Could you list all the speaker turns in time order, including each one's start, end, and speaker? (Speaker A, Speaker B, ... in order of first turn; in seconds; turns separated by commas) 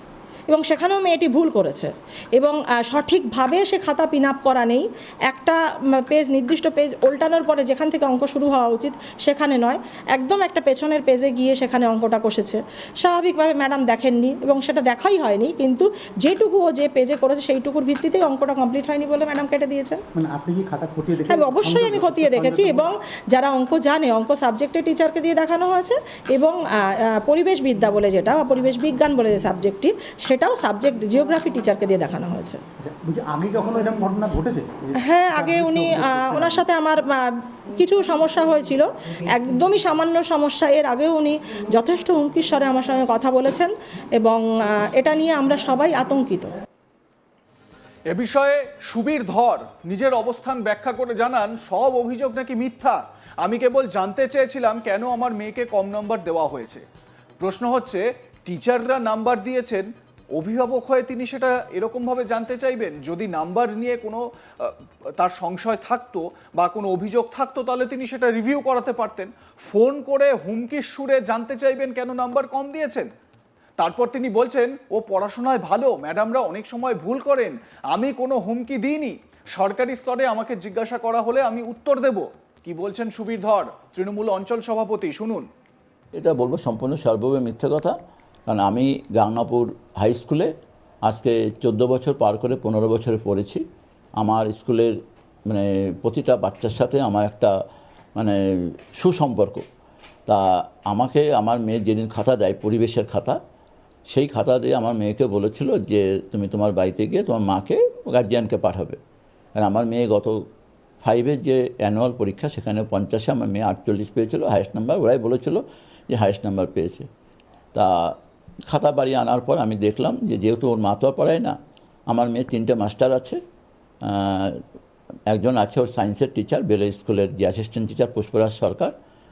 Speaker A: 0.5-20.0, Speaker B: 20.1-22.9, Speaker A: 21.3-32.6, Speaker B: 32.8-36.6, Speaker A: 35.0-46.5, Speaker C: 48.1-56.8, Speaker C: 57.4-73.1, Speaker C: 73.8-85.5, Speaker D: 86.2-87.9, Speaker D: 88.5-90.5, Speaker D: 91.0-93.6, Speaker D: 94.2-95.0, Speaker D: 95.5-97.6, Speaker D: 98.2-99.7, Speaker D: 100.3-103.4, Speaker D: 104.1-109.0, Speaker D: 109.6-110.4, Speaker D: 111.0-117.1, Speaker D: 117.7-118.2, Speaker D: 118.7-121.6, Speaker D: 122.1-123.4, Speaker D: 124.0-124.6, Speaker D: 125.3-128.9